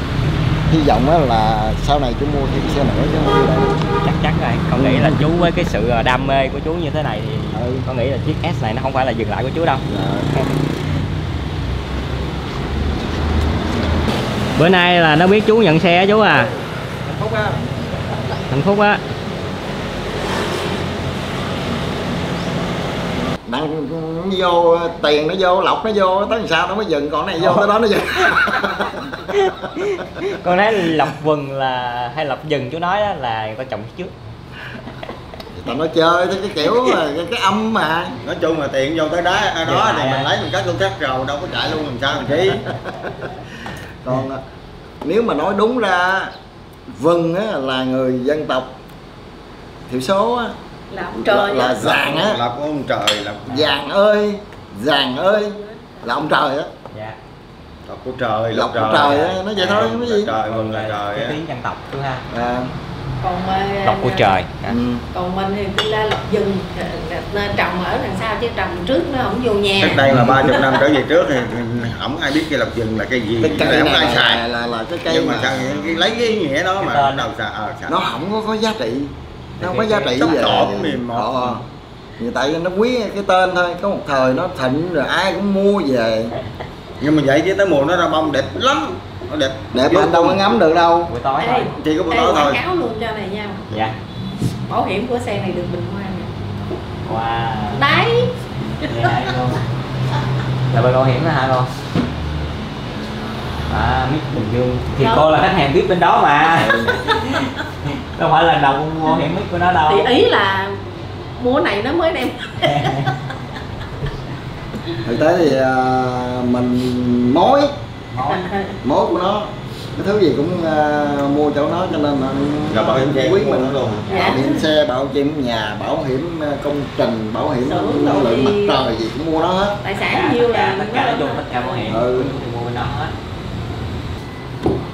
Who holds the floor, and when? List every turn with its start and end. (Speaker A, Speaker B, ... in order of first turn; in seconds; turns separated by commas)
Speaker A: 0.7-3.9, Speaker B: 4.0-9.8, Speaker A: 4.8-5.2, Speaker A: 7.5-7.8, Speaker A: 9.9-10.3, Speaker B: 14.6-16.5, Speaker A: 17.0-17.7, Speaker B: 18.5-19.0, Speaker A: 23.4-29.8, Speaker B: 29.3-34.1, Speaker A: 35.5-38.1, Speaker C: 38.2-42.7, Speaker B: 39.6-40.3, Speaker A: 44.0-44.4, Speaker A: 45.0-46.3, Speaker A: 46.9-48.8, Speaker A: 49.9-50.6, Speaker D: 50.9-52.1, Speaker A: 51.1-52.4, Speaker C: 51.8-53.6, Speaker A: 53.5-56.7, Speaker B: 56.9-57.2, Speaker C: 57.9-61.4, Speaker A: 58.5-60.3, Speaker B: 59.0-62.3, Speaker A: 62.3-62.7, Speaker D: 63.2-64.4, Speaker B: 63.8-64.8, Speaker A: 64.7-65.0, Speaker D: 65.1-70.8, Speaker C: 69.8-74.4, Speaker A: 73.4-75.8, Speaker C: 75.1-78.0, Speaker B: 76.8-77.2, Speaker A: 77.9-81.6, Speaker B: 79.6-80.2, Speaker C: 80.1-81.6, Speaker A: 82.2-86.3, Speaker C: 87.0-90.4, Speaker A: 89.7-91.1, Speaker B: 91.1-91.7, Speaker D: 91.4-93.7, Speaker C: 91.8-92.6, Speaker A: 92.1-92.4, Speaker B: 93.7-94.0, Speaker D: 94.7-96.3, Speaker B: 97.0-97.9, Speaker D: 97.8-98.3, Speaker B: 98.8-99.6, Speaker D: 98.8-99.2, Speaker B: 100.7-101.7, Speaker B: 103.7-110.1, Speaker D: 105.0-105.2, Speaker A: 106.5-107.0, Speaker D: 109.9-110.8, Speaker D: 111.3-113.1, Speaker B: 112.6-113.1, Speaker A: 115.0-117.7, Speaker B: 118.1-118.5, Speaker D: 118.2-118.8, Speaker A: 118.8-129.8, Speaker C: 122.7-124.3, Speaker D: 124.1-124.6, Speaker D: 127.6-128.8, Speaker D: 129.8-131.4, Speaker B: 130.0-133.1, Speaker A: 131.9-132.3